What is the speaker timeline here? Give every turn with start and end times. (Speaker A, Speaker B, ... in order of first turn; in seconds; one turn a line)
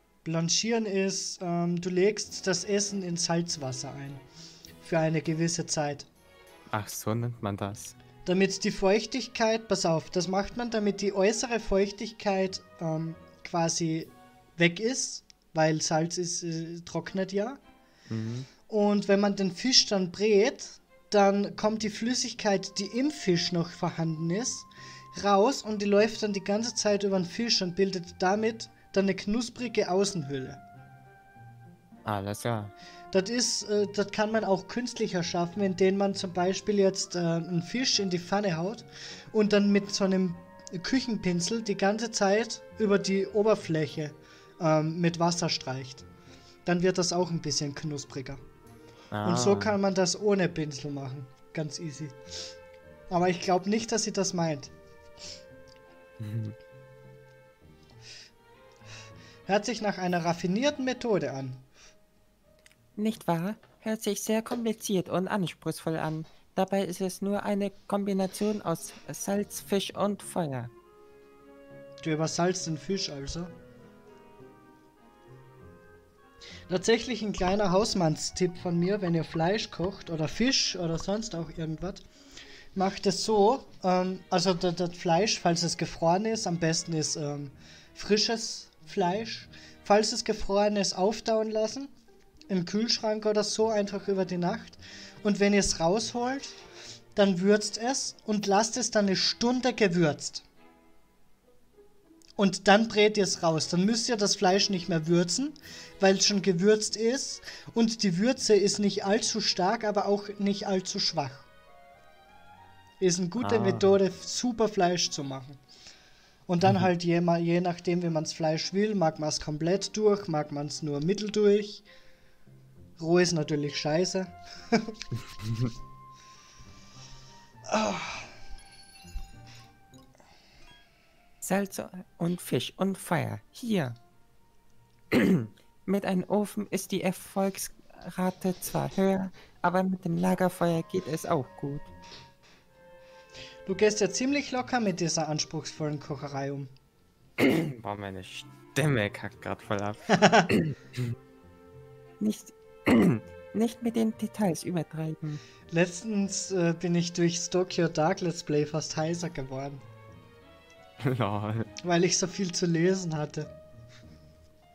Speaker A: 0.2-4.2
Speaker A: 4.8-6.1
Speaker B: 6.7-8.0
Speaker A: 8.2-17.6
Speaker B: 18.1-18.5
Speaker A: 18.7-30.6
Speaker B: 32.0-32.7
Speaker A: 33.1-46.0
Speaker A: 46.6-48.4
Speaker B: 49.1-49.8
Speaker A: 49.2-52.2
Speaker A: 53.1-54.7
Speaker B: 56.2-56.6
Speaker A: 59.5-61.7
Speaker C: 63.0-70.7
Speaker A: 72.0-73.5
Speaker A: 76.7-82.0
Speaker A: 82.8-91.9
Speaker A: 92.5-96.6
Speaker A: 97.2-100.5
Speaker A: 102.4-111.5
Speaker A: 113.0-115.6
Speaker B: 113.4-113.9
Speaker A: 116.5-121.8
Speaker A: 123.0-125.0
Speaker A: 127.7-128.3
Speaker C: 131.4-134.0
Speaker C: 135.1-141.9
Speaker A: 143.7-146.7
Speaker B: 147.4-151.0
Speaker A: 150.1-150.5
Speaker C: 152.2-155.4
Speaker A: 155.7-159.8
Speaker B: 161.0-161.7
Speaker A: 161.8-163.5